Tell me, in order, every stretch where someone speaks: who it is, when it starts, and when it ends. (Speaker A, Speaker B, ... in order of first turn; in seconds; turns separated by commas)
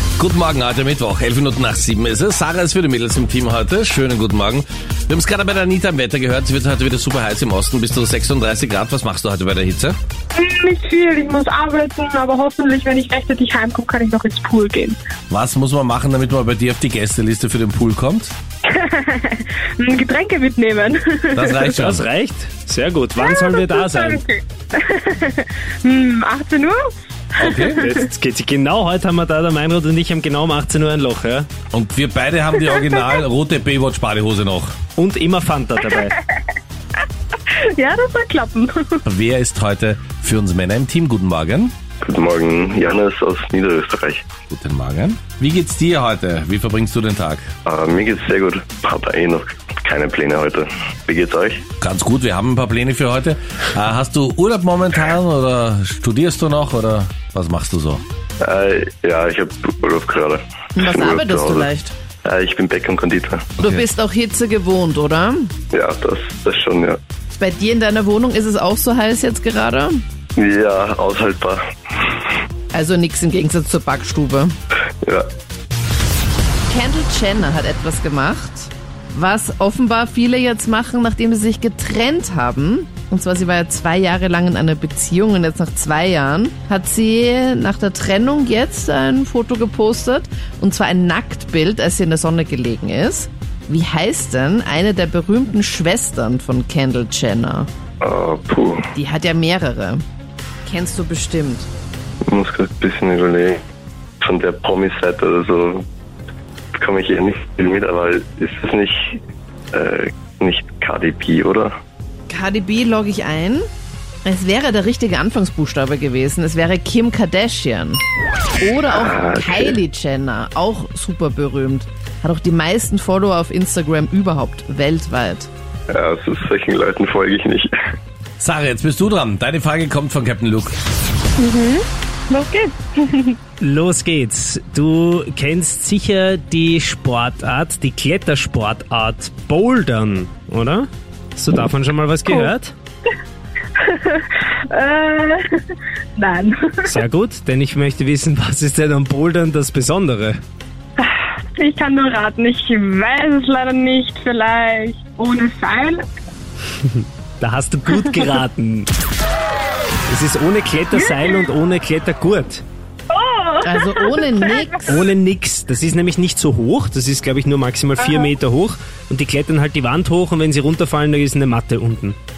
Speaker A: 0.2-10.0, Speaker B: 10.3-15.0, Speaker A: 15.3-18.3, Speaker B: 18.7-21.7, Speaker A: 21.3-22.1, Speaker C: 21.7-24.2, Speaker B: 23.2-26.8, Speaker B: 27.3-27.9, Speaker A: 27.4-27.9, Speaker C: 27.7-31.5, Speaker A: 31.7-34.8, Speaker C: 35.0-36.2, Speaker B: 37.0-39.0, Speaker A: 39.0-41.7, Speaker D: 42.0-44.2, Speaker A: 44.5-47.5, Speaker D: 47.6-51.6, Speaker A: 51.8-58.0, Speaker D: 58.4-61.7, Speaker E: 60.8-61.9, Speaker D: 62.2-63.6, Speaker E: 63.6-65.5, Speaker D: 65.7-67.0, Speaker E: 67.3-70.0, Speaker D: 70.4-71.6, Speaker E: 72.7-74.5, Speaker E: 76.7-97.7, Speaker D: 98.0-98.8, Speaker E: 98.9-100.0, Speaker E: 100.6-101.7, Speaker D: 102.2-103.6, Speaker D: 104.2-105.8, Speaker D: 106.7-109.2, Speaker D: 109.7-111.7, Speaker E: 112.3-113.7, Speaker E: 114.2-118.0, Speaker E: 118.6-125.5, Speaker D: 118.9-119.8, Speaker D: 125.9-127.7, Speaker A: 128.4-130.7, Speaker B: 131.4-133.4, Speaker C: 133.6-142.7, Speaker B: 143.8-146.9, Speaker C: 146.9-150.4, Speaker B: 151.0-156.0, Speaker C: 156.9-158.9, Speaker C: 160.1-162.6, Speaker B: 163.1-164.9, Speaker E: 163.6-165.0, Speaker C: 164.8-172.2, Speaker B: 168.1-168.3